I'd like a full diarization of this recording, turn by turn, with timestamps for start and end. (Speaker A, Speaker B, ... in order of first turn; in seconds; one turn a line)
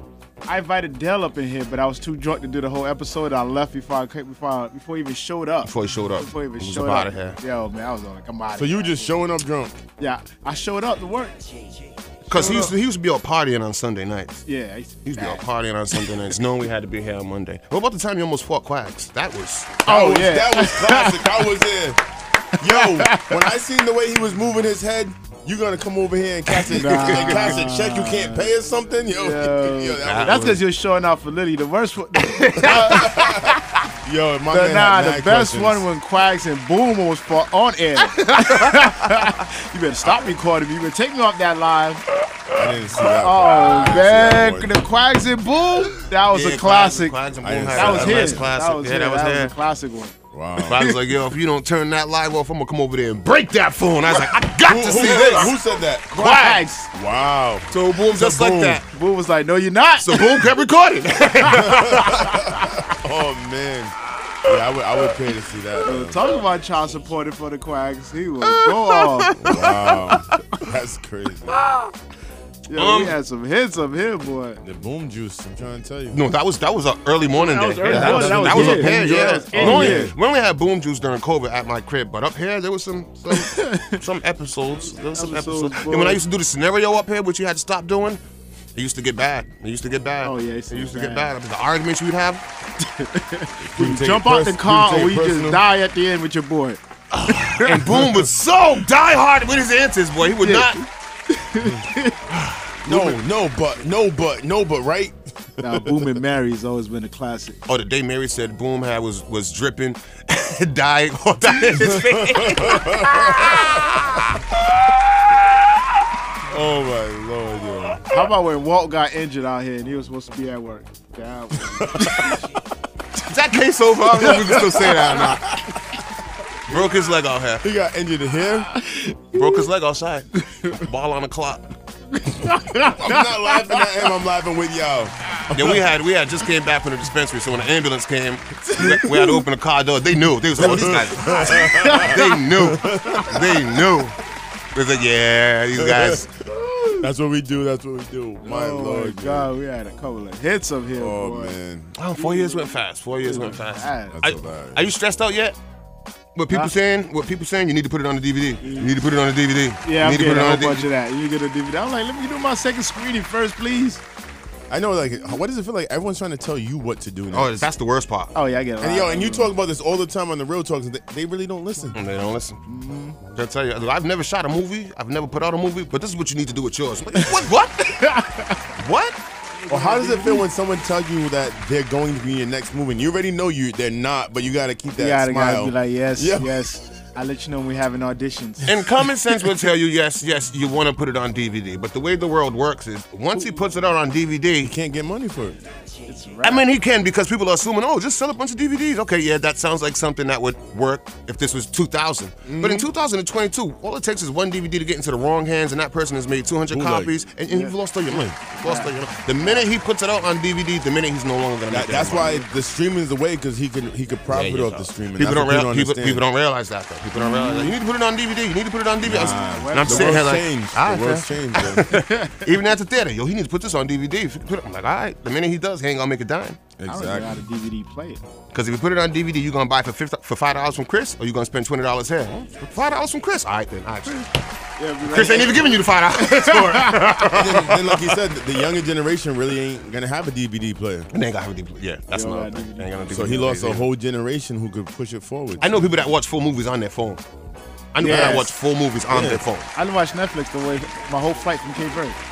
Speaker A: 0.5-9.2
Speaker B: 5.6-7.4
Speaker C: 8.6-9.8
Speaker A: 10.0-11.3
Speaker A: 12.3-12.7
Speaker B: 12.3-14.4
Speaker A: 14.4-15.4
Speaker B: 15.0-19.8
Speaker A: 19.9-21.4
Speaker C: 19.9-22.0
Speaker C: 22.6-30.5
Speaker A: 22.6-23.3
Speaker A: 26.7-28.5
Speaker A: 29.1-33.5
Speaker B: 30.0-30.6
Speaker C: 32.6-35.8
Speaker A: 34.5-47.2
Speaker C: 42.5-44.7
Speaker B: 46.1-49.5
Speaker C: 47.4-48.5
Speaker A: 47.7-50.1
Speaker C: 50.3-50.9
Speaker B: 50.6-55.5
Speaker C: 54.6-56.3
Speaker A: 54.9-55.5
Speaker A: 56.1-56.9
Speaker B: 56.1-56.6
Speaker C: 56.9-57.7
Speaker B: 57.7-58.8
Speaker A: 58.1-60.5
Speaker B: 60.0-62.3
Speaker A: 61.5-62.7
Speaker C: 61.6-66.2
Speaker A: 65.8-69.4
Speaker B: 68.6-69.8
Speaker C: 69.4-71.6
Speaker A: 72.7-74.6
Speaker B: 72.7-73.2
Speaker C: 74.6-76.2
Speaker B: 76.1-88.2
Speaker A: 77.3-80.1
Speaker C: 77.8-80.1
Speaker A: 83.3-84.0
Speaker A: 85.1-86.2
Speaker B: 88.7-92.4
Speaker A: 90.2-91.3
Speaker A: 92.8-98.1
Speaker C: 93.6-95.6
Speaker B: 97.2-100.8
Speaker A: 100.4-102.2
Speaker B: 102.4-103.1
Speaker C: 102.8-106.1
Speaker A: 105.6-107.6
Speaker B: 107.7-114.3
Speaker C: 111.8-113.6
Speaker C: 116.5-118.0
Speaker A: 118.1-122.4
Speaker C: 121.8-122.4
Speaker B: 123.2-125.6
Speaker A: 124.2-125.2
Speaker B: 126.7-127.6
Speaker C: 127.6-128.7
Speaker A: 128.7-129.6
Speaker B: 129.3-131.7
Speaker A: 132.1-134.1
Speaker C: 132.8-135.8
Speaker B: 135.5-144.2
Speaker C: 140.6-143.6
Speaker A: 141.3-142.4
Speaker B: 144.7-146.3
Speaker C: 145.7-146.2
Speaker A: 146.5-147.1
Speaker C: 147.0-149.5
Speaker A: 148.4-151.6
Speaker C: 151.0-151.9
Speaker B: 152.0-155.6
Speaker A: 152.2-154.2
Speaker C: 154.1-154.9
Speaker B: 156.3-160.9
Speaker A: 158.6-158.9
Speaker A: 159.8-164.0
Speaker C: 164.7-167.7
Speaker B: 167.3-168.3
Speaker A: 168.3-169.5
Speaker C: 168.8-172.0
Speaker B: 171.9-172.6
Speaker A: 172.7-173.2
Speaker B: 173.3-178.0
Speaker A: 177.9-178.7
Speaker B: 178.8-179.2
Speaker A: 179.5-180.4
Speaker C: 179.7-186.6
Speaker A: 185.0-188.7
Speaker B: 188.7-194.7
Speaker C: 194.6-195.6
Speaker A: 196.1-196.7
Speaker B: 196.4-212.4
Speaker C: 202.4-202.9
Speaker C: 206.7-207.2
Speaker A: 207.5-207.7
Speaker A: 208.5-209.6
Speaker C: 211.7-216.2
Speaker B: 214.3-226.6
Speaker A: 217.2-217.7
Speaker C: 219.0-221.8
Speaker A: 219.1-220.2
Speaker A: 221.8-222.4
Speaker C: 226.8-227.4
Speaker A: 226.9-228.2
Speaker B: 228.5-234.3
Speaker A: 234.8-237.3
Speaker B: 235.1-238.0
Speaker C: 237.3-241.1
Speaker B: 241.1-243.8
Speaker A: 242.1-242.9
Speaker C: 243.1-246.0
Speaker B: 245.6-247.2
Speaker B: 247.9-249.7
Speaker A: 248.0-248.5
Speaker C: 248.0-248.4
Speaker C: 249.1-249.4
Speaker A: 249.8-252.2